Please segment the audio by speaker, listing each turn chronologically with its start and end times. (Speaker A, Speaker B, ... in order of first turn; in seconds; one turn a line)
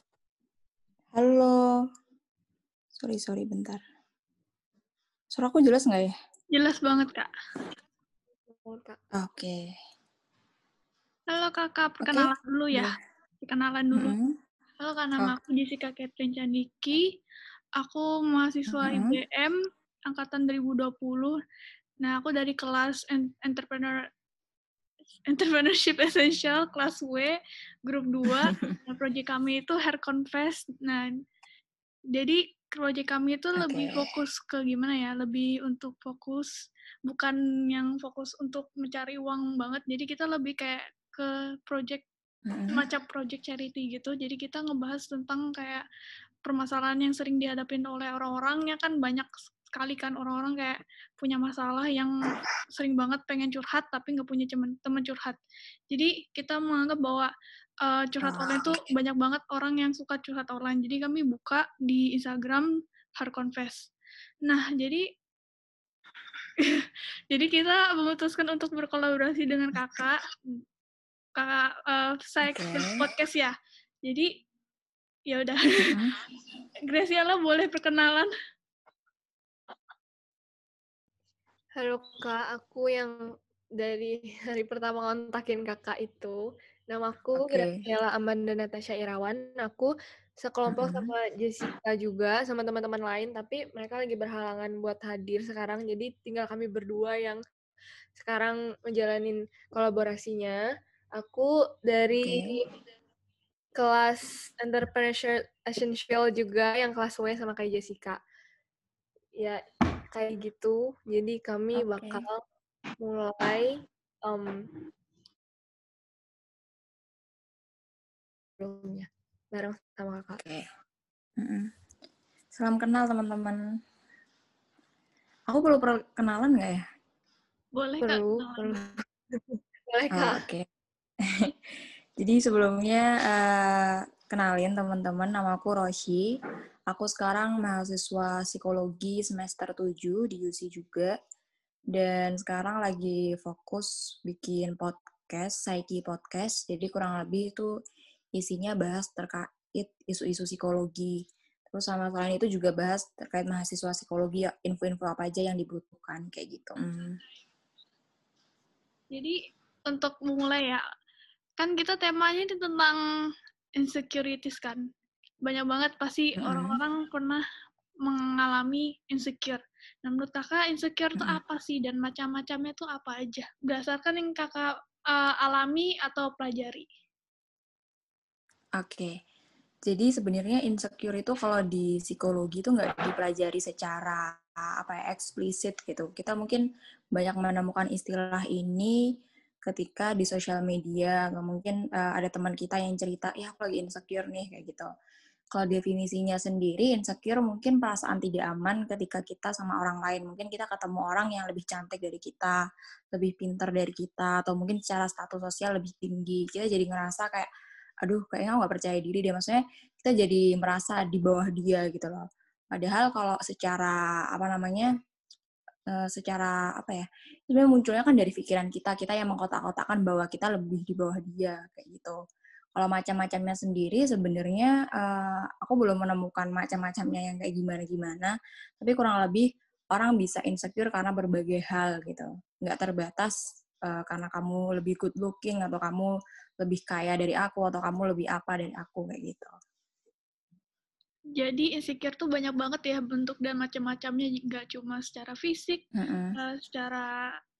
Speaker A: 1.1-1.6
Speaker A: 3.0-3.8
Speaker A: 5.3-6.1
Speaker B: 6.5-7.3
Speaker C: 8.5-9.0
Speaker A: 9.2-9.6
Speaker B: 11.3-14.1
Speaker A: 12.0-13.0
Speaker A: 14.0-14.3
Speaker B: 14.8-17.0
Speaker B: 17.8-19.6
Speaker A: 18.7-19.2
Speaker B: 20.1-21.3
Speaker B: 22.0-24.0
Speaker B: 25.3-31.1
Speaker B: 32.1-36.5
Speaker A: 33.6-34.0
Speaker B: 37.0-42.0
Speaker A: 42.5-42.8
Speaker B: 42.7-45.8
Speaker B: 46.5-55.4
Speaker B: 55.9-57.3
Speaker B: 57.8-63.9
Speaker A: 58.2-58.9
Speaker B: 64.5-65.0
Speaker B: 66.6-70.4
Speaker B: 71.4-73.5
Speaker A: 72.5-73.1
Speaker B: 75.3-75.9
Speaker A: 75.8-76.1
Speaker B: 76.9-78.3
Speaker C: 81.8-83.1
Speaker C: 83.8-86.4
Speaker C: 86.9-97.4
Speaker A: 87.4-87.8
Speaker A: 90.7-91.1
Speaker C: 98.2-100.6
Speaker C: 101.2-102.6
Speaker A: 102.2-102.5
Speaker C: 103.8-108.2
Speaker C: 110.1-112.4
Speaker A: 111.8-112.2
Speaker C: 113.0-113.7
Speaker C: 114.3-114.5
Speaker C: 118.6-120.4
Speaker A: 120.4-120.6
Speaker A: 121.4-121.7
Speaker A: 122.5-123.6
Speaker A: 125.5-126.8
Speaker B: 127.8-128.8
Speaker C: 128.0-130.4
Speaker A: 130.1-130.6
Speaker A: 132.2-136.2
Speaker A: 136.9-141.1
Speaker A: 141.9-147.7
Speaker A: 148.4-151.1
Speaker A: 151.7-157.2
Speaker B: 159.9-160.8
Speaker B: 161.6-163.0
Speaker B: 163.8-164.8
Speaker B: 165.4-167.4
Speaker A: 166.4-166.8
Speaker B: 168.1-176.9
Speaker A: 178.8-179.1
Speaker A: 179.9-184.2
Speaker A: 184.8-186.6
Speaker A: 187.1-188.9
Speaker A: 189.7-194.9
Speaker A: 195.5-202.6
Speaker A: 203.1-207.5
Speaker A: 208.0-212.2
Speaker A: 212.7-214.9
Speaker A: 215.9-222.2
Speaker A: 222.8-233.3
Speaker A: 233.9-239.5
Speaker B: 241.4-245.8
Speaker A: 245.9-246.3
Speaker B: 246.4-247.1